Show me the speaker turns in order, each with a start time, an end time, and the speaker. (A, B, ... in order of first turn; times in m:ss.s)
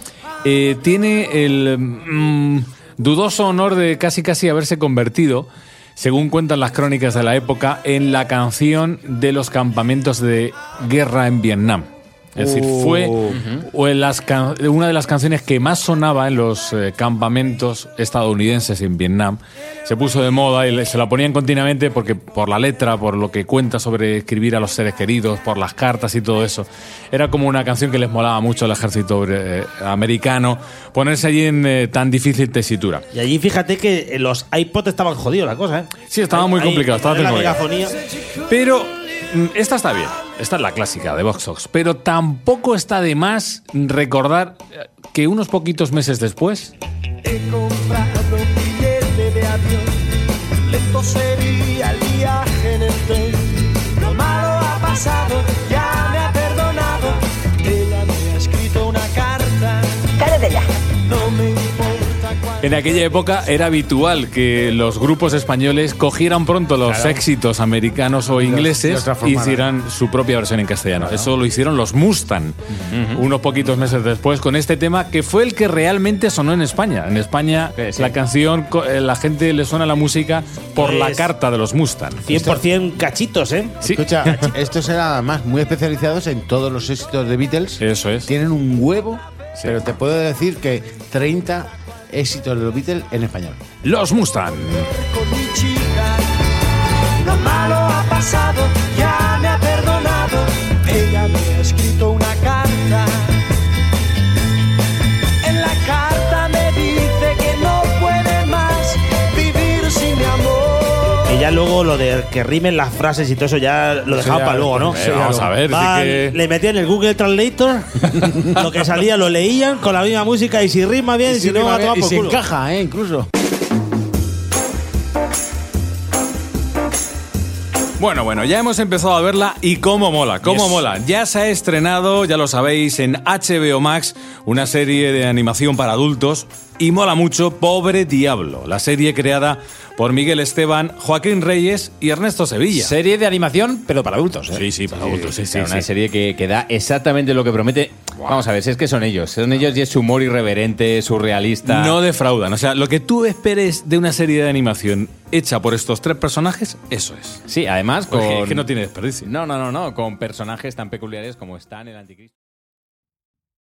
0:00.4-0:33.0 A
0:12.4-0:13.0 B
0:33.1-0:38.0 C
0:36.1-0:37.6 A
0:38.5-0:46.7 A
0:47.2-1:00.1 D
1:01.1-1:02.5 D
1:02.6-1:12.6 A
1:06.8-1:07.2 B
1:08.3-1:09.7 B
1:12.9-1:13.2 E
1:13.1-1:22.3 A
1:17.8-1:18.2 E
1:20.8-1:21.3 C
1:22.2-1:23.8 C
1:22.3-1:22.6 B
1:23.8-1:24.4 A
1:23.8-1:33.6 B
1:27.8-1:28.3 A
1:33.8-1:34.9 A
1:35.1-1:36.4 D
1:37.2-1:43.4 D
1:45.4-1:51.2 D
1:51.3-1:55.0 C
1:54.1-1:55.6 B
1:54.9-1:56.4 A
1:55.6-2:02.4 C
2:01.2-2:03.3 B
2:08.0-2:22.9 A
2:22.7-2:24.7 F
2:24.5-2:25.9 A
2:25.0-2:32.0 E
2:31.6-2:37.4 A
2:37.5-2:38.7 E
2:38.1-2:39.3 A
2:39.2-2:42.3 E